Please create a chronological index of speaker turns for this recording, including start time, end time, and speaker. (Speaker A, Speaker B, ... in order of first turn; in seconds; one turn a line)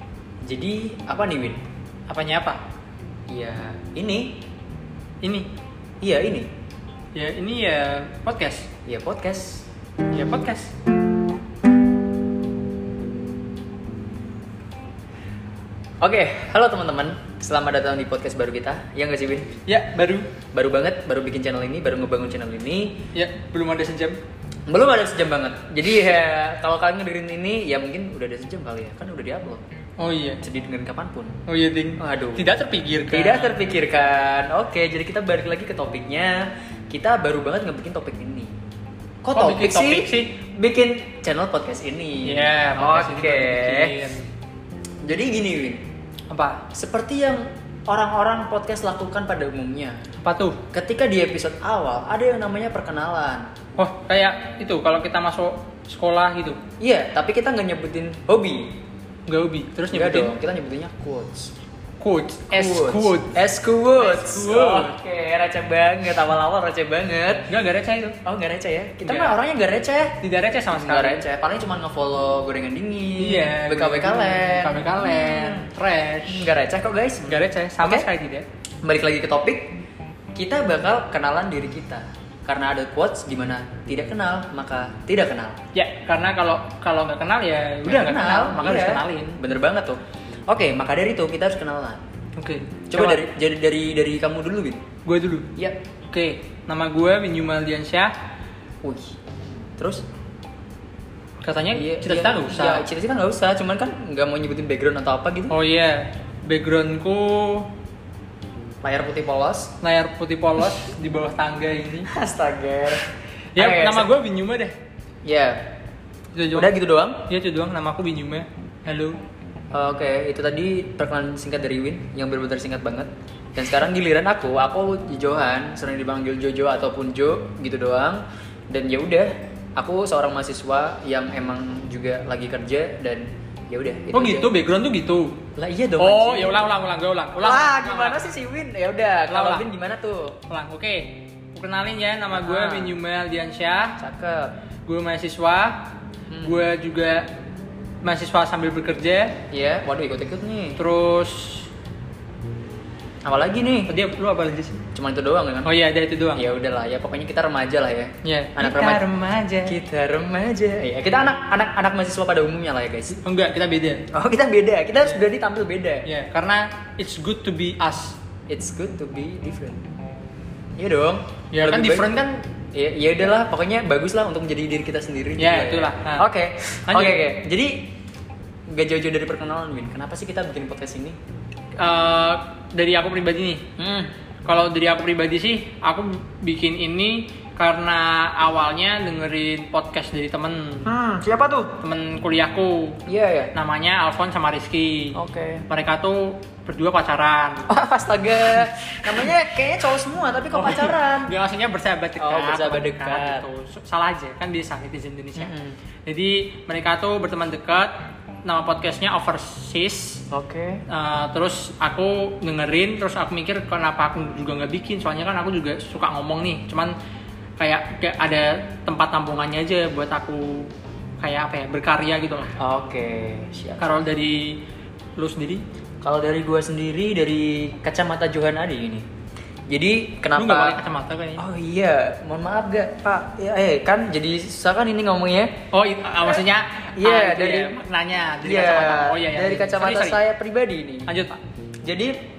Speaker A: 0.4-1.6
Speaker B: 2.1-2.6
Speaker A: 3.3-4.4
Speaker B: 5.2-5.5
Speaker A: 6.0-6.5
Speaker B: 7.1-8.7
Speaker A: 8.8-9.7
Speaker B: 10.1-10.7
Speaker A: 16.0-19.6
Speaker B: 19.7-20.3
Speaker A: 20.5-23.0
Speaker B: 23.1-24.2
Speaker A: 24.7-29.6
Speaker B: 30.0-30.4
Speaker A: 30.4-31.4
Speaker B: 31.5-33.7
Speaker A: 32.0-32.5
Speaker A: 33.1-38.5
Speaker A: 39.2-44.0
Speaker B: 39.3-40.4
Speaker B: 42.2-44.2
Speaker A: 45.0-45.8
Speaker B: 46.3-46.6
Speaker A: 46.7-50.0
Speaker B: 50.2-50.6
Speaker A: 50.7-53.5
Speaker B: 53.8-56.6
Speaker A: 56.8-58.7
Speaker B: 59.3-60.3
Speaker A: 59.9-61.5
Speaker B: 62.0-63.3
Speaker A: 62.5-67.5
Speaker B: 64.0-65.0
Speaker B: 67.5-68.2
Speaker A: 68.2-70.2
Speaker B: 69.0-69.3
Speaker B: 70.2-71.2
Speaker A: 70.7-75.7
Speaker B: 73.2-76.5
Speaker A: 76.2-78.1
Speaker B: 77.2-78.4
Speaker A: 78.8-79.8
Speaker A: 80.3-85.6
Speaker B: 85.7-89.4
Speaker A: 87.8-92.0
Speaker B: 92.4-93.2
Speaker A: 92.9-94.8
Speaker B: 95.0-95.5
Speaker B: 96.1-98.1
Speaker A: 98.8-99.2
Speaker A: 99.8-100.0
Speaker B: 101.4-102.8
Speaker A: 101.7-105.5
Speaker B: 105.5-107.7
Speaker A: 108.8-109.7
Speaker B: 109.8-112.1
Speaker A: 112.0-114.1
Speaker B: 113.5-114.7
Speaker A: 115.2-115.7
Speaker B: 116.3-116.7
Speaker A: 116.5-117.2
Speaker B: 117.2-119.2
Speaker A: 119.7-134.5
Speaker B: 134.1-135.4
Speaker A: 135.6-136.6
Speaker B: 136.0-138.3
Speaker A: 137.3-140.4
Speaker B: 139.3-139.7
Speaker B: 140.5-144.0
Speaker A: 142.3-143.0
Speaker A: 144.0-144.5
Speaker B: 144.8-145.8
Speaker A: 146.3-146.6
Speaker B: 146.4-147.3
Speaker B: 148.0-149.3
Speaker A: 149.5-150.8
Speaker B: 150.8-151.7
Speaker A: 153.2-153.9
Speaker B: 153.9-154.8
Speaker A: 154.9-155.7
Speaker B: 155.6-156.4
Speaker A: 156.3-159.0
Speaker B: 158.2-159.8
Speaker A: 159.6-163.2
Speaker B: 163.1-164.0
Speaker A: 164.1-166.1
Speaker B: 166.0-168.2
Speaker A: 168.5-169.8
Speaker A: 170.8-172.1
Speaker B: 171.5-172.4
Speaker A: 172.7-177.9
Speaker B: 175.4-176.2
Speaker B: 176.9-177.2
Speaker A: 178.7-181.2
Speaker B: 181.8-183.6
Speaker A: 183.8-184.1
Speaker B: 184.4-190.9
Speaker A: 190.8-191.8
Speaker B: 191.8-193.0
Speaker A: 193.1-193.5
Speaker B: 193.5-195.1
Speaker A: 195.1-195.6
Speaker B: 195.7-197.7
Speaker A: 197.7-201.3
Speaker B: 200.5-205.5
Speaker A: 202.2-203.4
Speaker A: 205.3-205.8
Speaker B: 206.1-207.9
Speaker B: 208.4-210.2
Speaker A: 210.3-210.8
Speaker B: 210.9-216.9
Speaker B: 217.6-220.7
Speaker B: 221.2-222.5
Speaker A: 222.6-223.9
Speaker B: 223.8-224.6
Speaker B: 225.2-225.6
Speaker A: 226.0-229.1
Speaker A: 229.7-230.8
Speaker B: 230.3-231.4
Speaker A: 231.4-235.5
Speaker B: 235.7-240.2
Speaker A: 237.0-237.8
Speaker A: 238.4-241.3
Speaker B: 241.1-241.4
Speaker A: 241.8-242.1